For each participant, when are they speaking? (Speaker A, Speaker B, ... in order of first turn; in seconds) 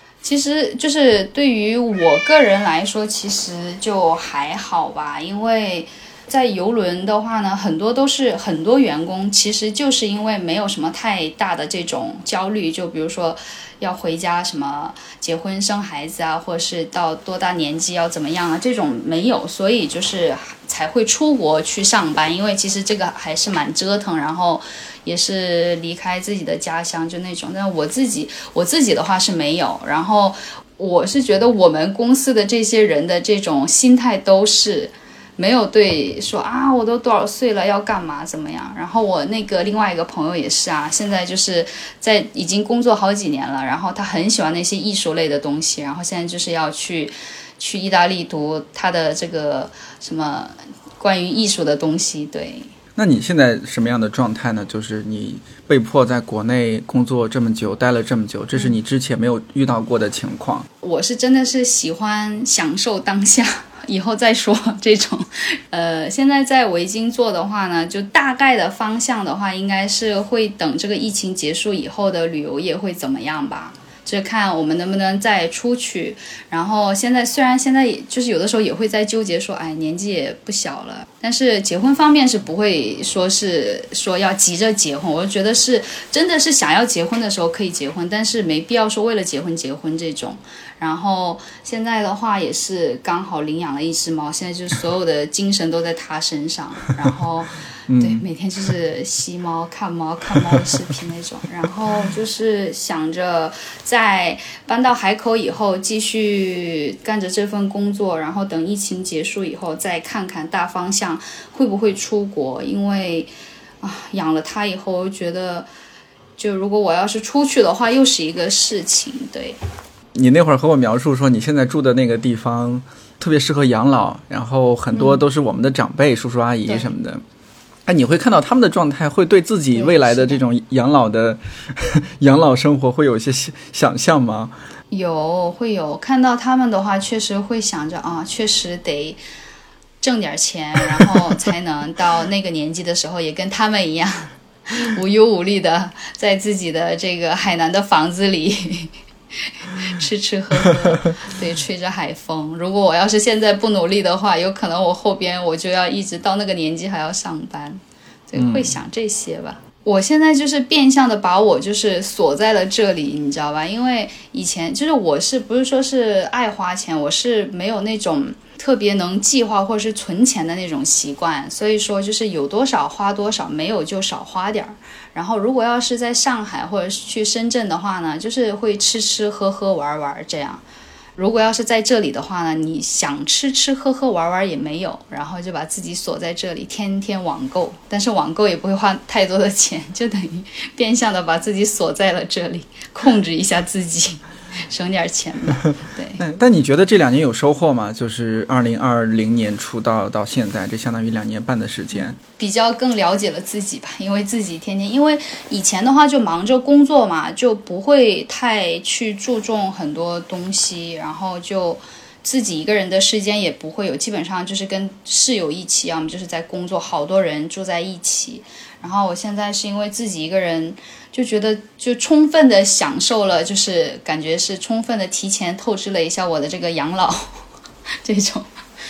Speaker A: 0.2-52.7, 60.8-115.7, 116.4-119.6, 124.9-125.2, 126.7-126.9, 129.7-130.4, 134.9-139.2, 140.0-180.6, 181.2-196.2, 201.9-227.4, 228.0-228.5
Speaker B: 53.0-60.6, 97.9-98.2, 120.1-127.2, 127.8-134.5, 158.4-158.7, 196.2-202.2